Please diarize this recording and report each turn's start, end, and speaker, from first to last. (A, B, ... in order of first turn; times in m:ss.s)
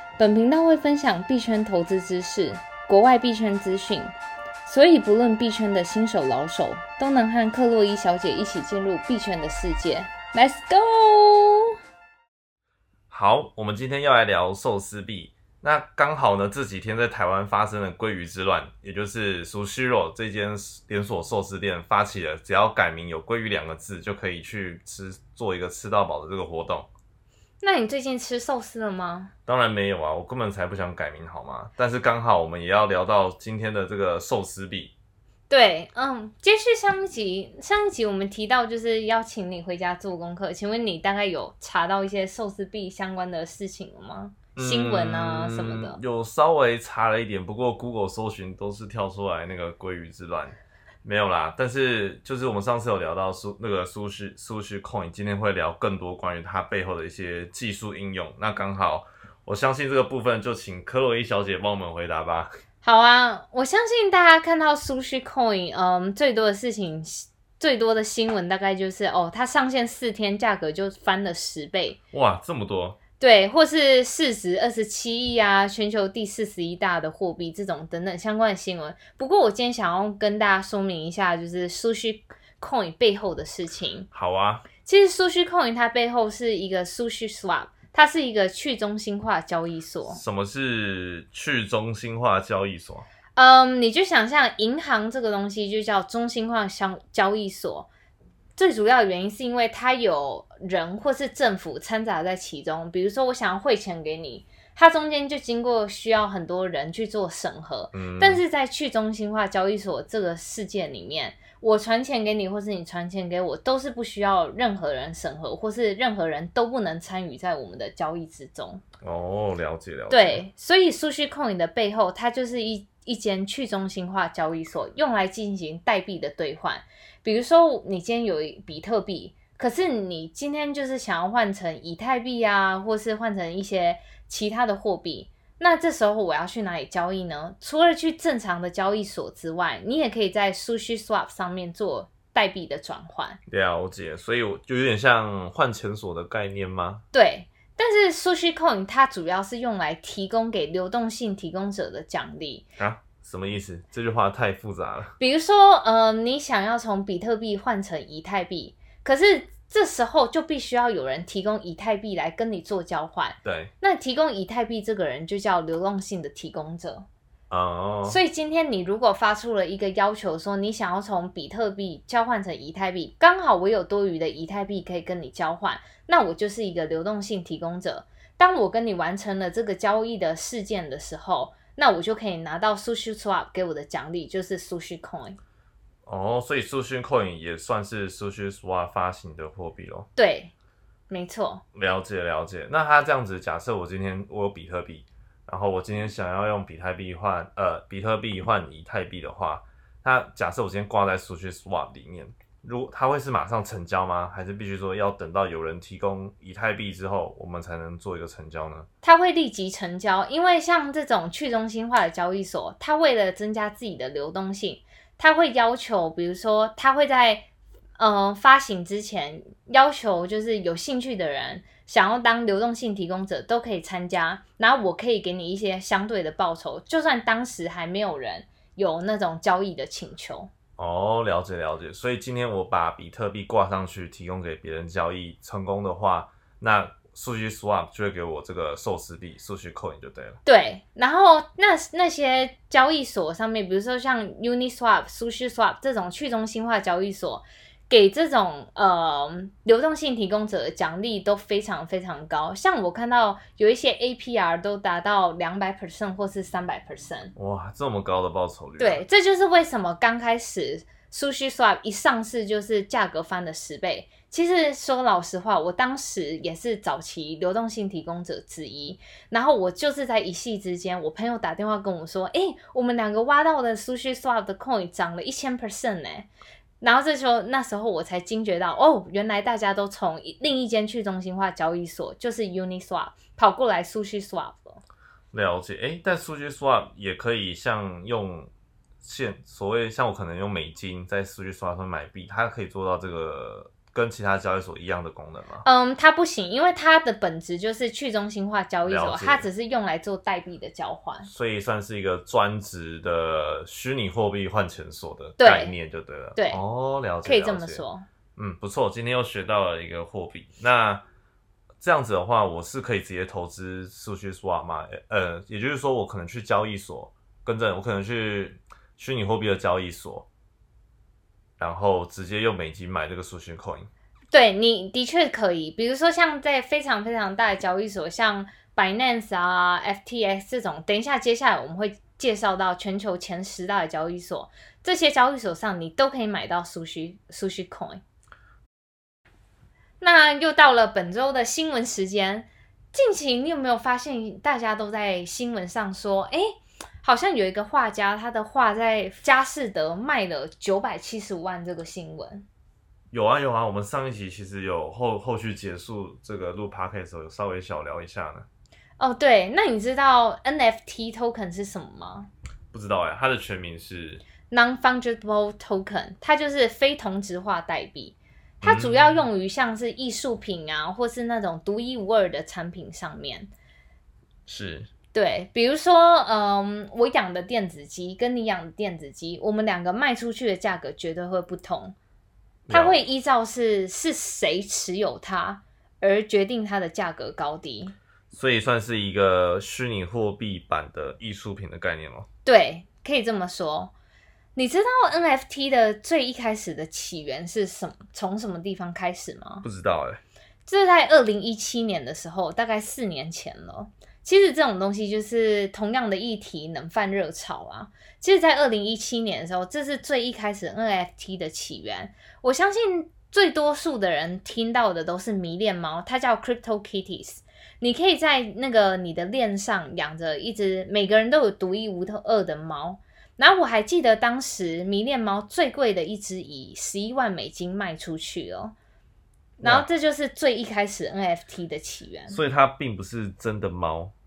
0:00.2-0:11.7 A
0:13.1-0:26.9 B
0:27.6-0:29.3 A
0:29.5-0:34.9 B
0:35.5-0:46.0 A
0:44.6-1:02.5 B
1:02.8-1:12.0 A
1:12.1-1:13.0 B
1:13.2-1:24.1 A
1:24.1-1:24.7 B
1:24.8-1:30.2 A
1:30.1-1:33.1 B
1:33.4-1:37.9 A
1:38.6-1:58.8 A
1:47.9-1:48.4 B
1:59.0-2:00.4 B
2:00.1-2:23.4 A
2:23.5-2:27.0 B
2:27.1-2:32.7 A
2:32.8-2:35.2 B
2:35.2-2:47.1 A
2:43.4-2:43.7 B
2:47.5-2:48.2 B
2:48.1-3:05.4 A
3:06.1-3:10.1 B
3:10.2-3:10.5 A
3:11.1-3:11.6 A
3:11.7-3:28.9 B
3:29.0-3:37.5 A
3:38.0-3:50.5 A
3:50.8-4:00.4 B
4:00.4-4:17.3 A
4:17.4-4:19.0 B
4:18.8-4:36.3 A
4:36.8-4:44.8 A
4:45.3-4:48.5 B
4:49.0-4:55.6 B
4:55.6-5:01.3 A
4:58.8-4:59.5 B
5:01.2-5:07.8 B
5:05.4-5:05.8 A
5:06.4-5:06.6 A
5:07.2-5:08.0 A
5:08.4-5:11.0 B
5:11.8-5:20.3 B
5:21.6-5:23.9 B
5:24.3-5:38.0 A
5:40.0-5:52.4 A
5:53.1-5:58.5 B
5:59.0-6:02.3 A
6:02.7-6:04.2 B
6:04.5-6:13.5 A
6:08.6-6:09.2 B
6:14.5-6:14.9 B
6:15.1-6:21.9 A
6:22.7-6:23.0 B
6:22.7-6:27.9 A
6:28.3-6:32.2 B
6:32.4-6:33.9 A
6:34.6-6:39.6 A
6:39.6-6:40.2 B
6:40.6-7:08.7 A
7:09.6-7:12.4 A
7:09.6-7:09.9 B
7:12.3-7:14.1 B